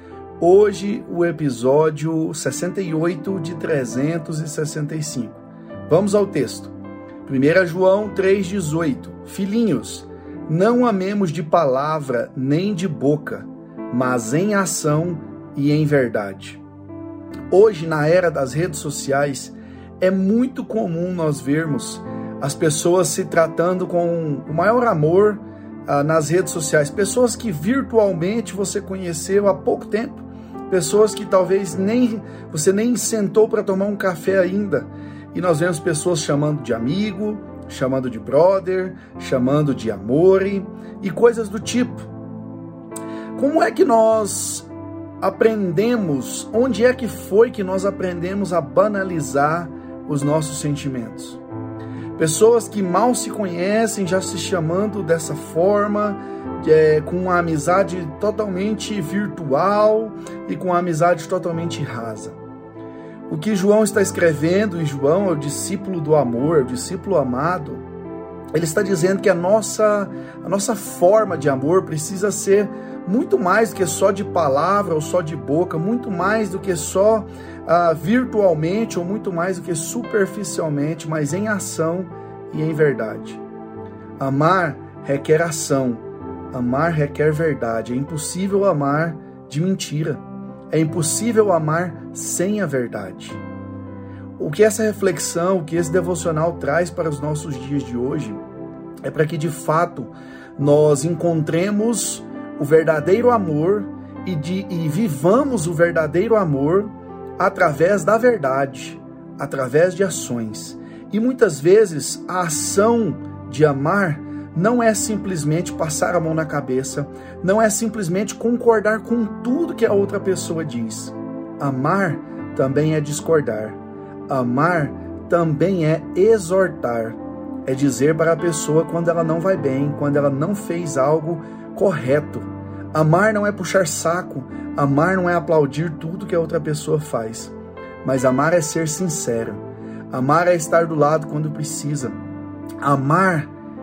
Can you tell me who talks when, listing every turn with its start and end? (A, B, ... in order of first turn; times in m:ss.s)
0:00.4-0:06.7 A
0:07.2-0:16.6 A
0:17.5-0:42.1 A
0:43.4-0:44.7 A
0:45.2-0:51.4 A
0:52.2-1:02.4 A
1:03.3-1:07.9 A
1:08.5-1:23.4 A
1:24.2-1:33.4 A
1:34.4-1:38.4 A
1:39.0-2:22.2 A
2:22.8-2:23.5 A